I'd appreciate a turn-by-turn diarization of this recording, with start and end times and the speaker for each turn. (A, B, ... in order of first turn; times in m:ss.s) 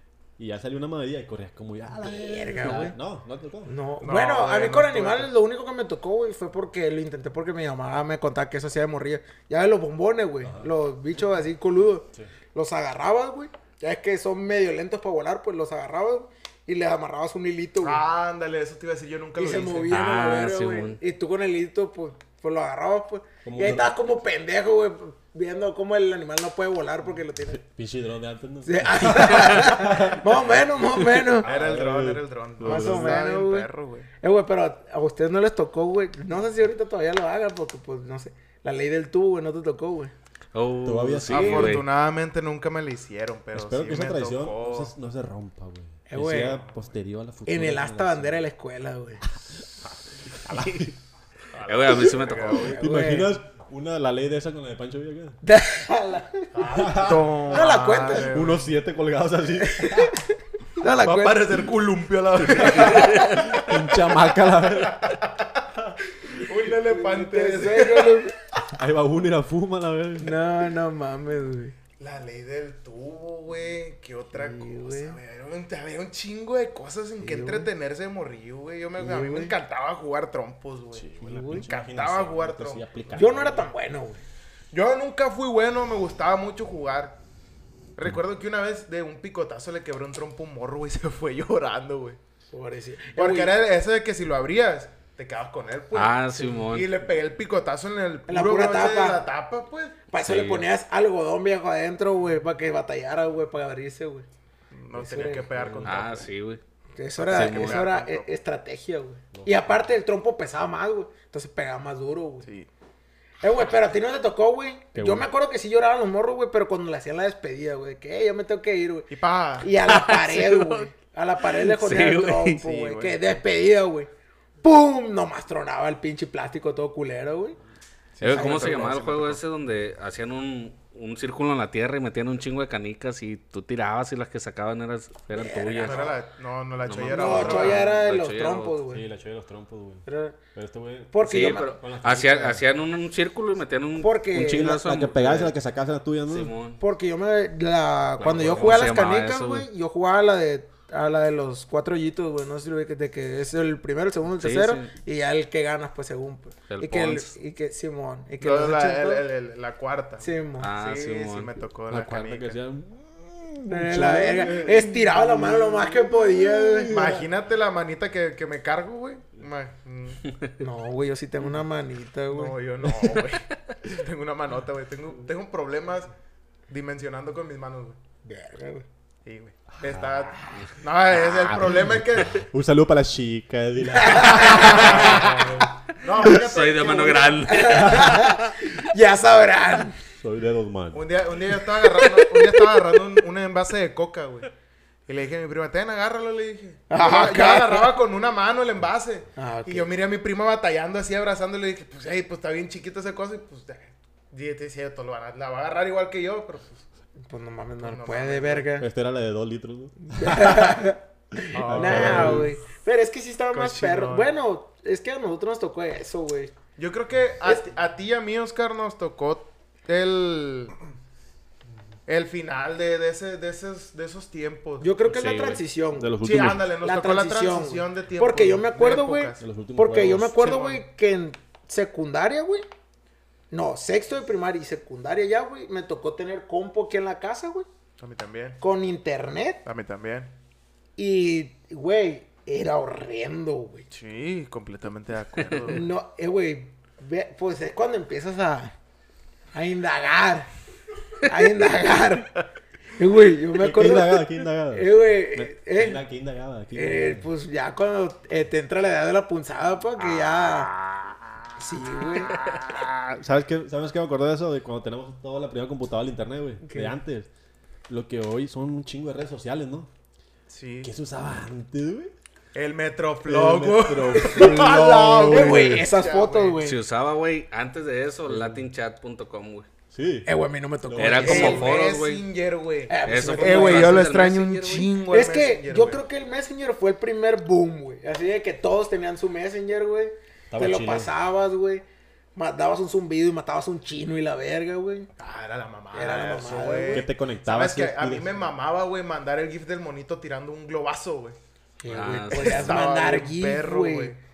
0:00.4-0:03.8 A
0:02.0-0:03.0 B
0:03.7-0:18.0 B
0:04.0-0:05.3 C
0:17.8-0:20.0 C
0:19.4-0:27.6 B
0:19.9-0:21.0 D
0:23.4-0:23.9 A
0:27.5-0:33.2 A
0:28.6-0:31.5 B
0:31.4-0:34.1 C
0:32.6-0:33.7 B
0:34.2-0:40.1 B
0:40.5-0:41.9 D
0:40.8-0:41.8 A
0:41.3-0:44.9 C
0:43.5-0:48.4 A
0:46.1-0:46.6 B
0:47.5-0:49.2 B
0:49.8-0:50.9 A
0:50.5-0:50.9 D
0:51.5-0:52.8 C
0:51.7-0:52.8 D
0:52.5-0:53.4 B
0:52.6-0:55.4 A
0:55.4-0:58.3 B
0:56.5-0:58.7 C
0:56.7-0:57.7 A
0:58.3-1:00.2 A
0:59.7-1:01.6 B
1:01.0-1:03.9 C
1:02.4-1:05.1 A
1:02.6-1:03.4 B
1:04.7-1:05.6 C
1:06.2-1:08.2 C
1:06.8-1:08.4 B
1:08.7-1:10.4 A
1:10.2-1:11.8 B
1:12.0-1:22.9 C
1:14.4-1:15.2 B
1:17.2-1:17.7 B
1:19.0-1:19.6 B
1:20.9-1:23.7 A
1:21.2-1:21.7 B
1:23.2-1:24.2 B
1:24.7-1:27.2 C
1:28.0-1:32.2 C
1:32.5-1:33.6 B
1:33.2-1:40.0 C
1:35.9-1:36.9 D
1:38.3-1:39.2 B
1:40.1-1:44.3 B
1:40.2-1:40.6 D
1:44.7-1:46.3 C
1:44.9-1:45.6 B
1:45.5-1:46.0 A
1:45.8-1:46.6 D
1:47.0-1:52.5 B
1:47.2-1:48.3 C
1:47.3-1:47.9 D
1:49.3-1:49.8 A
1:52.4-1:52.7 C
1:53.4-2:04.1 B
1:54.9-1:55.3 A
1:59.1-1:59.7 C
1:59.9-2:00.8 D
2:01.6-2:02.6 D
2:02.6-2:03.3 C
2:04.6-2:07.6 B
2:08.2-2:09.4 C
2:08.2-2:16.0 D
2:08.3-2:08.9 B
2:15.3-2:16.2 B
2:15.8-2:17.8 C
2:16.8-2:18.8 D
2:17.1-2:19.0 B
2:18.9-2:22.6 A
2:20.1-2:20.4 B
2:21.1-2:21.7 B
2:21.2-2:25.5 D
2:24.0-2:24.8 B
2:24.4-2:26.5 A
2:26.3-2:26.8 D
2:26.8-2:39.3 B
2:28.2-2:28.9 A
2:28.5-2:29.7 D
2:34.4-2:34.9 D
2:36.7-2:37.3 D
2:38.4-2:42.6 C
2:40.2-2:40.7 B
2:40.6-2:41.5 D
2:41.9-2:47.3 A
2:43.7-2:47.0 B
2:46.9-2:50.3 C
2:50.6-2:52.6 B
2:52.3-2:56.1 C
2:56.7-2:58.0 C
2:58.2-2:58.8 B
2:59.2-3:02.4 C
2:59.8-3:00.6 A
3:01.1-3:05.6 A
3:04.0-3:05.1 B
3:04.4-3:05.3 D
3:04.4-3:07.6 C
3:06.2-3:08.5 D
3:07.5-3:10.0 B
3:07.6-3:08.2 A
3:10.2-3:11.1 A
3:10.9-3:14.5 C
3:12.0-3:12.8 B
3:15.1-3:26.8 C
3:16.9-3:18.0 B
3:19.4-3:19.9 B
3:27.3-3:28.9 B
3:27.8-3:28.7 C
3:28.8-3:30.8 A
3:30.1-3:36.5 B
3:31.5-3:32.5 C
3:31.5-3:32.6 A
3:33.5-3:34.3 C
3:36.8-3:40.8 C
3:42.1-3:44.9 C
3:44.8-3:46.2 B
3:45.1-3:46.7 A
3:46.2-3:49.5 C
3:46.7-3:52.6 B
3:49.4-3:50.4 A
3:50.4-3:50.8 C
3:53.5-3:57.7 B
3:58.0-3:58.6 C
3:58.6-3:59.6 B
3:59.6-4:00.3 C
4:01.0-4:03.9 B
4:03.9-4:05.8 C
4:05.7-4:08.7 B
4:09.5-4:10.5 B
4:11.2-4:12.4 B
4:13.0-4:16.0 B
4:13.6-4:17.3 A
4:16.7-4:20.7 B
4:20.4-4:21.2 D
4:21.6-4:22.4 B
4:22.3-4:22.6 D
4:22.4-4:27.3 A
4:26.6-4:27.0 B
4:27.9-4:29.9 A
4:30.5-4:30.9 C
4:30.8-4:32.1 A
4:32.5-4:36.6 C
4:33.2-4:35.9 A
4:34.1-4:36.8 B
4:36.6-4:39.7 D
4:38.3-4:38.7 A
4:39.9-4:40.3 A
4:40.3-4:41.8 B
4:40.9-4:41.6 A
4:41.0-4:42.2 D
4:41.2-4:46.0 C
4:42.9-4:44.2 B
4:43.0-4:44.9 D
4:45.1-4:51.8 B
4:50.5-4:51.1 A
4:52.4-4:55.1 B
4:55.2-5:01.4 C
4:55.9-4:57.1 B
4:56.9-4:58.4 A
5:01.8-5:04.2 B
5:01.9-5:02.8 D
5:02.3-5:04.2 C